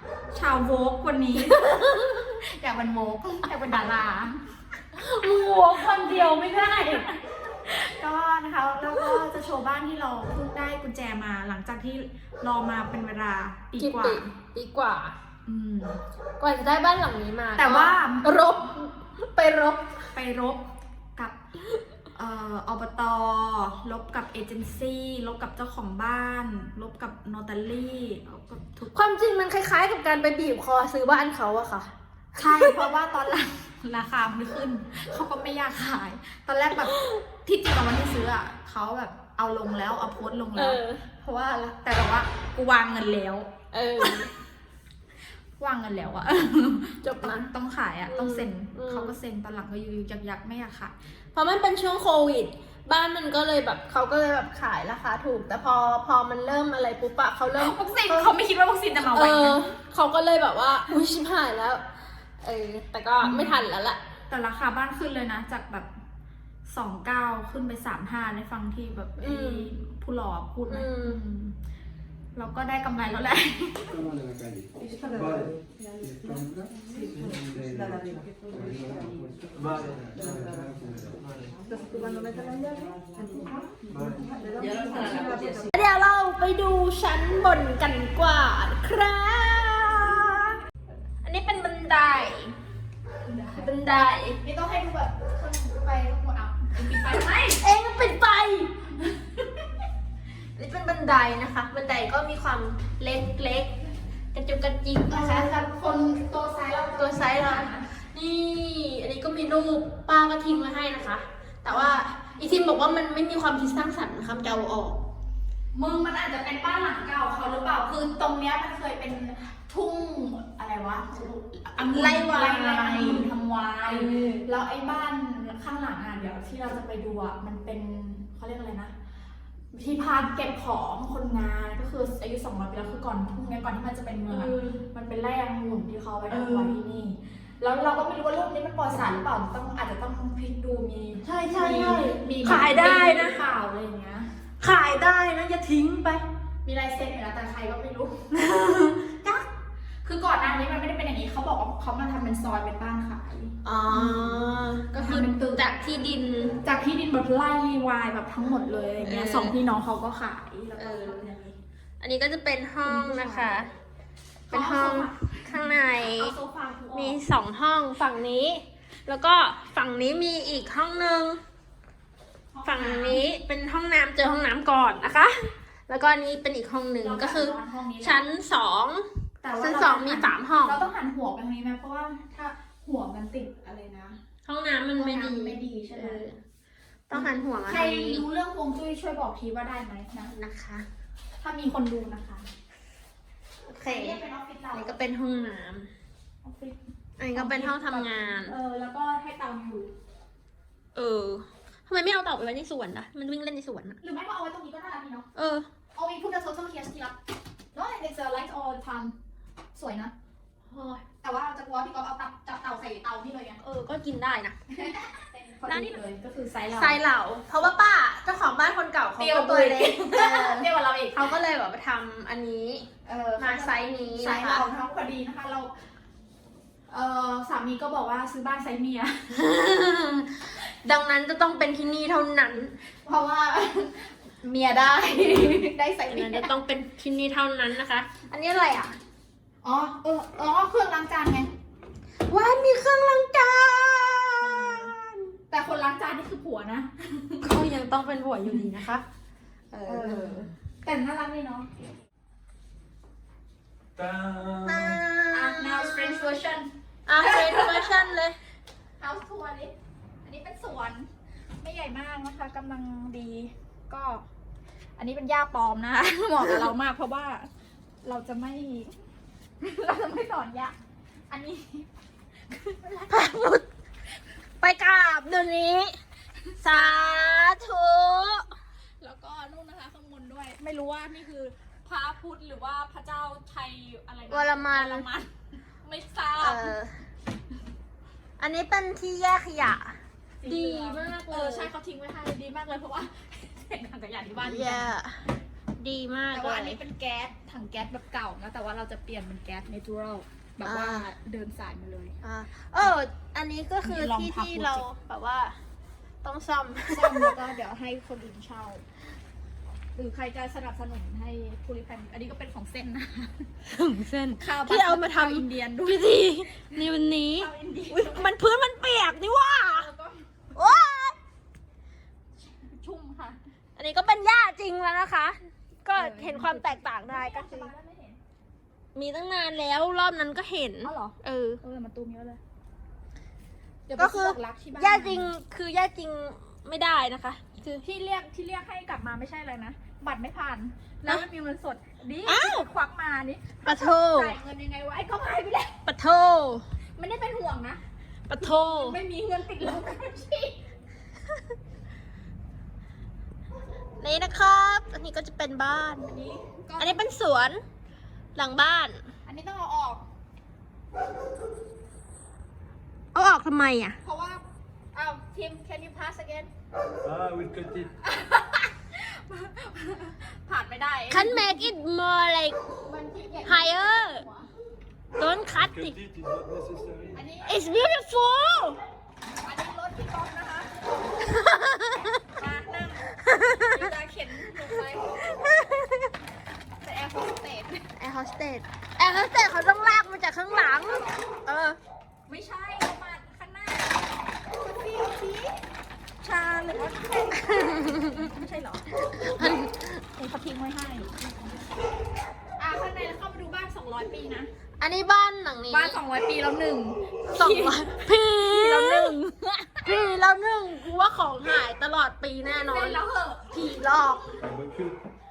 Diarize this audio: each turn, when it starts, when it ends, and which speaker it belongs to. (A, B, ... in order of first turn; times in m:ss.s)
0:00.3-0:01.6 A
0:01.4-0:02.3 B
0:02.3-0:04.4 A
0:05.0-0:07.0 B
0:05.5-0:14.3 A
0:09.0-0:09.3 B
0:13.8-0:15.1 B
0:15.4-0:16.0 A
0:16.4-0:19.9 B
0:17.6-0:18.6 A
0:20.1-0:20.6 A
0:22.1-0:29.0 A
0:28.9-0:32.9 B
0:32.4-0:43.5 A
0:36.8-0:37.2 B
0:40.5-0:41.0 B
0:43.7-0:44.3 B
0:45.6-0:50.9 A
0:47.0-0:47.5 B
0:48.1-0:49.2 B
0:51.3-0:58.3 B
0:57.5-0:59.7 A
0:59.0-1:01.8 B
1:02.4-1:04.0 B
1:03.2-1:03.6 A
1:04.3-1:05.9 A
1:06.6-1:11.5 A
1:09.2-1:09.7 B
1:10.7-1:11.2 B
1:12.3-1:14.0 A
1:15.1-1:15.5 C
1:19.5-1:20.2 C
1:21.2-1:21.6 C
1:25.2-1:30.5 B
1:31.2-1:32.6 B
1:33.2-1:33.7 A
1:33.6-1:34.4 B
1:34.4-1:37.6 A
1:36.8-1:38.7 B
1:39.0-1:39.4 A
1:40.6-1:43.8 B
1:44.3-1:45.7 B
1:45.1-1:47.9 A
1:46.9-1:55.0 B
1:51.7-1:52.0 A
1:55.7-2:08.9 A
2:01.8-2:03.3 B
2:03.8-2:04.4 B
2:09.7-2:24.3 A
2:14.3-2:14.8 B
2:16.3-2:16.8 B
2:21.2-2:23.4 B
2:24.6-2:26.2 B
2:26.6-2:28.2 A
2:28.3-2:29.4 B
2:30.0-2:34.4 A
2:33.6-2:36.6 B
2:34.9-2:35.7 A
2:36.6-2:41.5 A
2:39.0-2:39.6 B
2:40.8-2:41.3 B
2:42.0-2:43.7 B
2:42.8-2:43.6 A
2:44.5-2:46.3 B
2:44.5-2:47.2 A
2:46.9-2:51.4 B
2:52.5-2:53.2 A
2:52.6-2:55.4 B
2:55.9-3:00.8 B
2:57.0-2:58.2 A
2:59.4-3:04.2 A
3:04.4-3:06.4 B
3:04.9-3:06.2 A
3:07.1-3:08.2 B
3:07.1-3:10.3 A
3:10.3-3:10.8 B
3:11.4-3:12.5 A
3:13.7-3:14.2 B
3:13.8-3:15.0 A
3:14.7-3:15.9 B
3:16.4-3:16.8 A
3:17.2-3:18.5 B
3:17.3-3:19.9 A
3:20.9-3:24.0 B
3:24.0-3:25.3 A
3:25.3-3:25.7 B
3:25.9-3:27.2 A
3:27.7-3:29.1 A
3:29.7-3:30.1 A
3:30.7-3:31.0 B
3:31.2-3:33.6 A
3:33.6-3:34.6 B
3:34.7-3:37.0 A
3:35.6-3:36.0 B
3:36.7-3:44.6 B
3:39.2-3:41.3 A
3:43.0-3:45.7 A
3:46.9-3:49.2 A
3:49.3-3:52.7 B
3:53.0-3:56.5 A
3:56.1-3:59.0 B
3:59.6-4:01.5 A
4:02.2-4:05.3 B
4:04.4-4:04.9 A
4:05.5-4:07.4 A
4:07.4-4:09.0 B
4:09.7-4:10.5 B
4:09.8-4:11.7 A
4:13.9-4:15.0 C
4:14.6-4:16.3 B
4:15.3-4:18.0 A
4:17.0-4:18.4 B
4:19.0-4:19.7 A
4:20.2-4:21.1 A
4:21.6-4:24.2 A
4:25.0-4:27.5 A
4:28.0-4:29.0 A
4:29.6-4:30.7 A
4:31.3-4:31.9 A
4:32.5-4:33.2 A
4:33.1-4:33.6 B
4:34.6-4:36.0 B
4:36.6-4:37.5 A
4:36.6-4:38.5 B
4:39.0-4:45.3 A
4:44.3-4:45.1 B
4:45.8-4:46.7 A
4:46.4-4:47.0 B
4:48.4-4:51.7 B
4:50.4-4:54.9 A
4:54.4-4:55.2 B
4:55.8-4:56.8 B
4:56.3-5:02.1 A
5:00.6-5:01.1 B
5:02.2-5:05.6 B
5:03.8-5:04.9 A
5:06.2-5:07.3 B
5:06.9-5:08.8 A
5:09.9-5:13.5 A
5:13.7-5:19.9 B
5:14.4-5:16.8 A
5:17.3-5:18.3 A
5:19.7-5:20.3 A
5:20.5-5:21.2 B
5:22.4-5:23.4 A
5:23.8-5:27.7 B
5:25.9-5:28.2 A
5:28.9-5:31.6 B
5:30.8-5:32.4 A
5:33.9-5:35.3 A
5:34.0-5:37.8 B
5:37.8-5:45.8 A
5:42.2-5:42.7 B
5:43.6-5:44.4 B
5:45.8-5:46.6 B
5:47.0-5:47.8 A
5:48.3-5:49.0 B
5:48.3-5:50.6 A
5:54.0-5:56.1 B
5:56.0-5:57.0 A
5:56.8-5:57.6 B
5:58.3-5:59.0 B
5:59.2-6:00.0 A
6:03.1-6:04.0 B
6:04.0-6:04.4 A
6:04.9-6:06.5 A
6:07.0-6:07.9 C
6:08.0-6:11.7 A
6:11.1-6:12.6 B
6:12.8-6:14.5 A
6:13.4-6:14.2 B
6:15.2-6:16.0 B
6:15.5-6:17.2 C
6:17.1-6:17.6 A
6:17.4-6:18.8 B
6:19.4-6:20.7 A
6:21.2-6:22.2 B
6:22.3-6:23.1 A
6:23.2-6:23.9 B
6:23.6-6:25.2 A
6:25.3-6:26.1 B
6:26.8-6:27.8 A
6:28.0-6:31.8 B
6:30.8-6:31.3 A
6:32.3-6:35.6 A
6:36.2-6:39.6 A
6:37.4-6:38.3 B
6:39.2-6:40.0 B
6:40.2-6:41.6 A
6:42.6-6:44.5 A
6:44.8-6:46.0 B
6:45.7-6:47.9 A
6:47.3-6:49.2 B
6:48.4-6:50.0 A
6:49.8-6:54.3 B
6:52.7-6:53.5 A
6:54.4-6:55.0 C